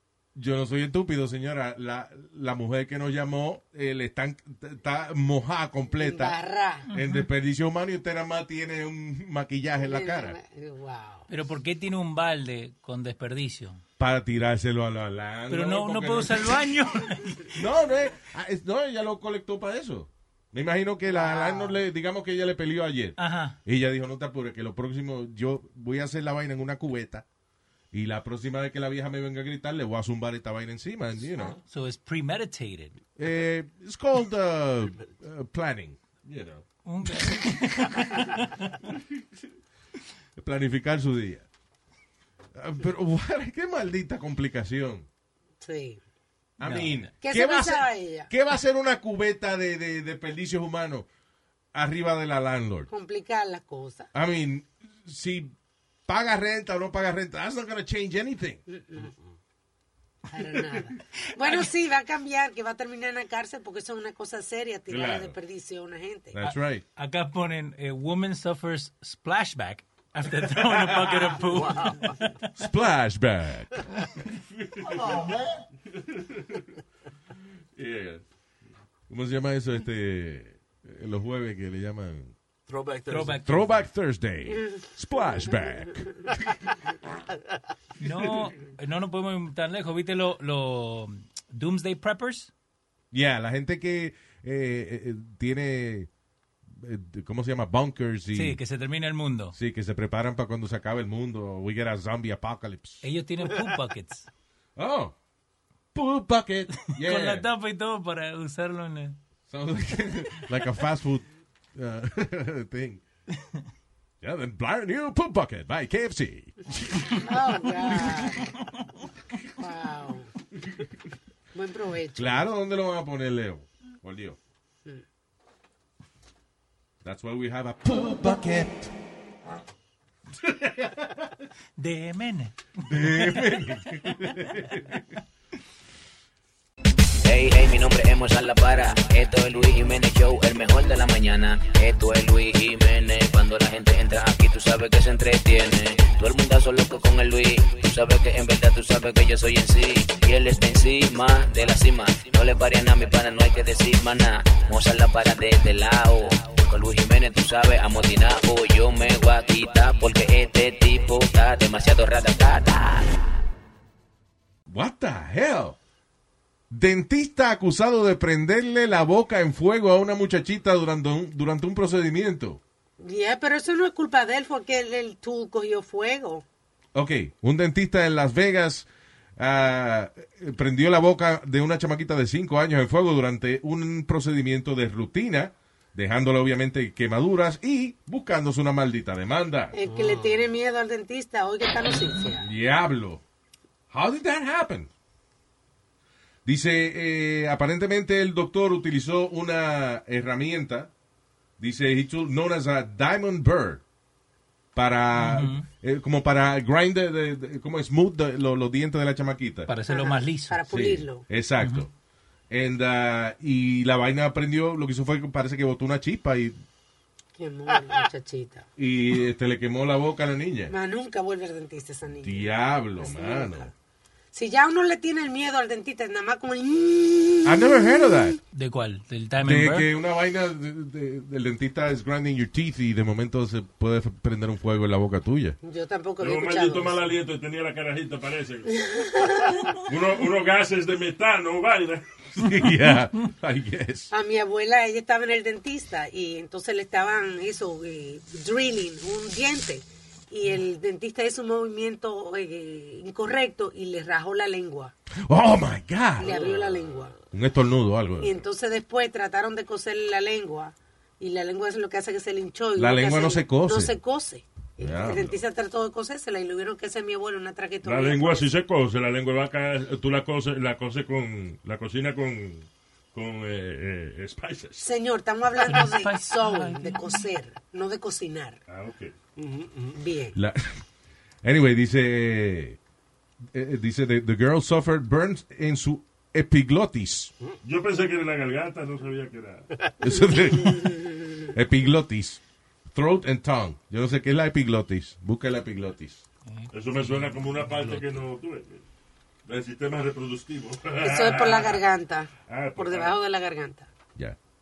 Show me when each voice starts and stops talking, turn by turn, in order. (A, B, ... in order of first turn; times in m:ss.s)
0:00.4-0:06.4 A
0:06.0-0:06.9 B
0:06.9-0:07.2 C
0:06.9-0:10.4 A
0:09.8-0:11.3 B
0:11.3-0:13.8 C
0:14.0-0:16.6 A
0:15.5-0:17.6 C
0:17.6-0:27.2 A
0:21.1-0:21.8 B
0:23.2-0:23.6 C
0:27.9-0:31.6 A
0:31.7-0:33.0 C
0:33.2-0:36.0 A
0:36.3-0:36.6 D
0:36.8-0:38.7 C
0:40.4-0:41.5 A
0:42.6-0:45.1 A
0:45.6-0:46.0 B
0:46.6-0:47.1 C
0:46.6-0:51.1 A
0:47.2-0:48.3 B
0:51.7-0:52.9 A
0:52.9-0:54.1 B
0:54.1-0:55.6 A
0:56.1-0:58.6 A
0:58.7-0:59.1 B
1:00.3-1:06.4 B
1:04.9-1:05.4 A
1:06.3-1:06.8 A
1:06.4-1:12.7 C
1:11.5-1:12.1 E
1:12.6-1:13.7 A
1:17.8-1:18.2 D
1:19.1-1:22.3 A
1:22.7-1:23.6 E
1:23.1-1:23.8 C
1:23.4-1:26.2 A
1:28.0-1:32.5 C
1:33.1-1:36.1 A
1:36.7-1:38.6 A
1:38.3-1:39.6 C
1:39.5-1:43.0 A
1:43.0-1:44.3 C
1:44.8-1:45.1 A
1:45.9-1:47.5 A
1:46.8-1:49.2 C
1:49.5-1:53.0 A
1:54.2-1:57.3 A
1:57.2-1:58.4 B
1:57.9-1:58.2 A
1:59.6-2:00.3 B
2:01.5-2:02.5 B
2:02.2-2:04.4 A
2:07.0-2:08.9 A
2:10.4-2:11.2 A
2:11.8-2:13.5 C
2:12.9-2:15.0 A
2:17.2-2:43.2 F
2:44.7-2:45.8 A
2:46.7-2:52.6 A
2:53.0-2:56.4 B
2:57.0-3:09.8 A
3:09.7-3:12.5 B
3:09.9-3:10.3 E
3:12.4-3:13.2 A
3:13.9-3:14.9 A
3:16.4-3:20.9 A
3:21.6-3:23.8 A
3:24.8-3:29.7 A
3:25.1-3:25.7 C
3:29.7-3:30.6 C
3:29.9-3:31.2 B
3:30.7-3:31.9 A
3:31.6-3:31.9 C
3:32.5-3:36.6 A
3:37.4-3:38.7 B
3:38.8-3:40.7 A
3:40.7-3:43.7 B
3:42.2-3:43.7 A
3:44.3-3:47.7 B
3:47.4-3:48.4 A
3:48.5-3:49.9 C
3:49.4-3:55.6 A
3:55.6-3:57.1 B
3:56.2-3:58.8 D
3:58.7-3:59.7 B
3:59.8-4:02.1 D
4:02.4-4:04.1 A
4:04.1-4:14.9 B
4:15.3-4:16.3 A
4:16.2-4:17.2 B
4:16.2-4:16.8 E
4:17.3-4:18.4 A
4:18.2-4:28.5 B
4:22.8-4:24.0 A
4:24.8-4:25.4 A
4:27.8-4:34.8 D
4:34.8-4:38.6 B
4:35.6-4:37.2 C
4:38.7-4:39.1 D
4:39.4-4:40.0 E
4:40.0-4:40.4 B
4:40.4-4:40.8 A
4:41.4-4:42.8 A
4:43.5-4:47.3 A
4:47.6-4:49.7 D
4:50.0-4:52.4 A
4:52.9-4:56.2 A
4:56.5-4:58.2 C
4:56.7-4:58.8 D
4:59.5-5:01.8 D
5:01.0-5:03.9 B
5:02.5-5:03.2 D